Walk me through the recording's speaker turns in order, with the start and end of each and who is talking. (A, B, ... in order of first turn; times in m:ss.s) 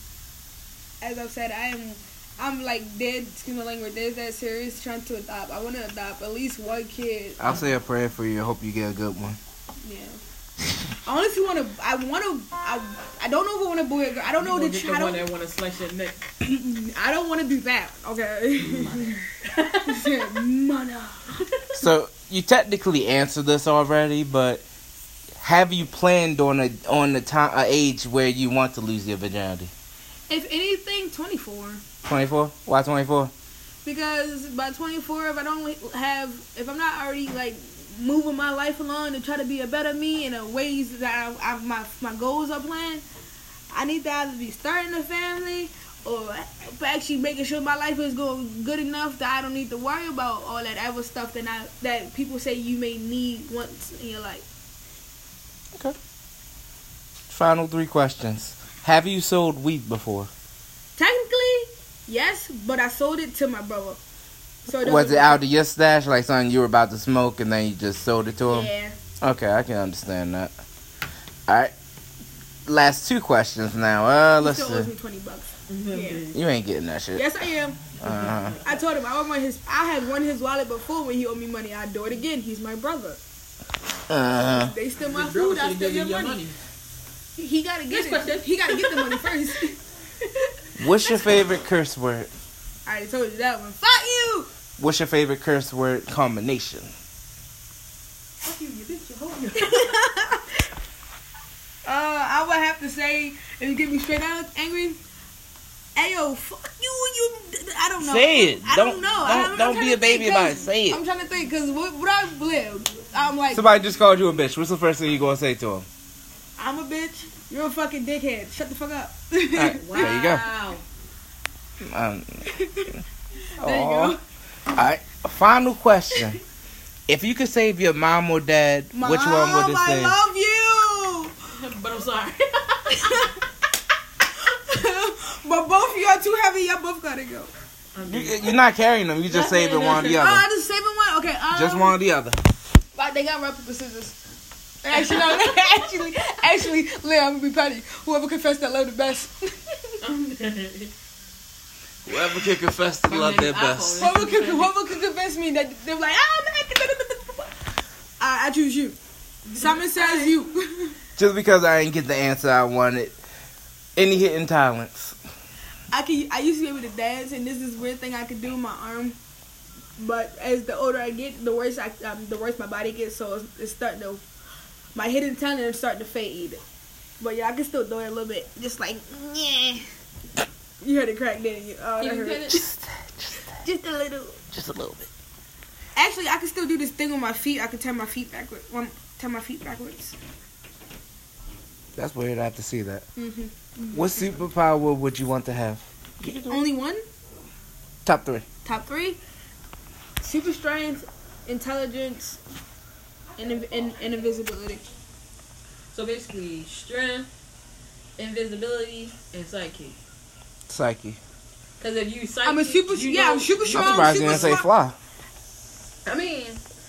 0:01.0-0:07.6 A
0:07.4-0:09.4 B
0:09.8-0:10.2 A
0:11.0-0:15.3 A
0:14.4-0:16.2 C
0:16.4-0:19.2 A
0:18.6-0:20.2 C
0:19.8-0:21.3 A
0:21.7-0:24.6 B
0:25.4-0:29.7 B
0:30.3-0:31.8 A
0:32.0-0:33.3 B
0:33.8-0:43.0 A
0:43.7-0:54.4 A
0:57.3-1:00.3 B
1:01.0-1:04.0 A
1:04.6-1:05.4 A
1:04.7-1:10.5 B
1:08.5-1:08.9 A
1:11.5-1:11.7 B
1:12.6-1:14.9 B
1:14.4-1:16.3 A
1:15.7-1:16.4 C
1:16.3-1:17.2 B
1:17.1-1:17.8 A
1:18.0-1:18.6 B
1:18.0-1:18.8 C
1:18.6-1:23.2 A
1:24.1-1:24.7 B
1:24.5-1:26.4 A
1:25.0-1:26.6 C
1:27.4-1:29.8 A
1:27.9-1:29.6 C
1:30.2-1:30.5 C
1:30.8-1:32.3 B
1:32.8-1:34.5 A
1:34.8-1:36.9 B
1:38.4-1:40.0 C
1:39.5-1:40.7 A
1:41.8-1:45.0 A
1:46.0-1:53.7 A
1:48.0-1:51.0 B
1:53.5-1:55.8 B
1:56.6-2:00.2 A
1:59.5-2:00.4 B
1:59.8-2:00.8 C
2:01.8-2:02.4 B
2:02.4-2:03.0 A
2:03.6-2:04.2 A
2:03.6-2:04.2 B
2:04.7-2:06.4 B
2:07.1-2:10.2 B
2:08.9-2:11.3 A
2:11.5-2:13.4 C
2:12.9-2:13.3 A
2:14.5-2:17.5 A
2:17.9-2:18.5 C
2:18.0-2:20.4 B
2:19.3-2:20.2 C
2:19.7-2:22.0 A
2:21.5-2:22.4 B
2:22.9-2:24.2 A
2:24.8-2:30.0 A
2:24.9-2:25.8 C
2:30.0-2:30.9 C
2:32.0-2:34.1 B
2:33.1-2:34.7 C
2:34.0-2:37.5 A
2:38.2-2:39.0 A
2:39.5-2:40.4 C
2:39.5-2:41.0 A
2:41.2-2:43.2 B
2:44.0-2:45.2 B
2:45.9-2:49.2 A
2:50.0-2:54.2 A
2:54.9-2:56.6 A
2:57.2-2:59.9 A
3:00.8-3:02.6 A
3:02.0-3:02.6 C
3:02.5-3:03.6 B
3:03.6-3:04.4 A
3:04.5-3:05.1 B
3:06.0-3:10.2 A
3:12.0-3:13.0 B
3:13.2-3:14.4 A
3:13.9-3:16.6 B
3:16.5-3:17.0 A
3:18.0-3:18.4 B
3:18.6-3:19.2 A
3:20.2-3:22.4 A
3:23.4-3:24.9 A
3:25.9-3:27.3 C
3:28.2-3:30.0 C
3:30.7-3:31.2 B
3:31.8-3:34.6 C
3:32.4-3:34.6 A
3:33.7-3:35.0 B
3:36.0-3:36.6 C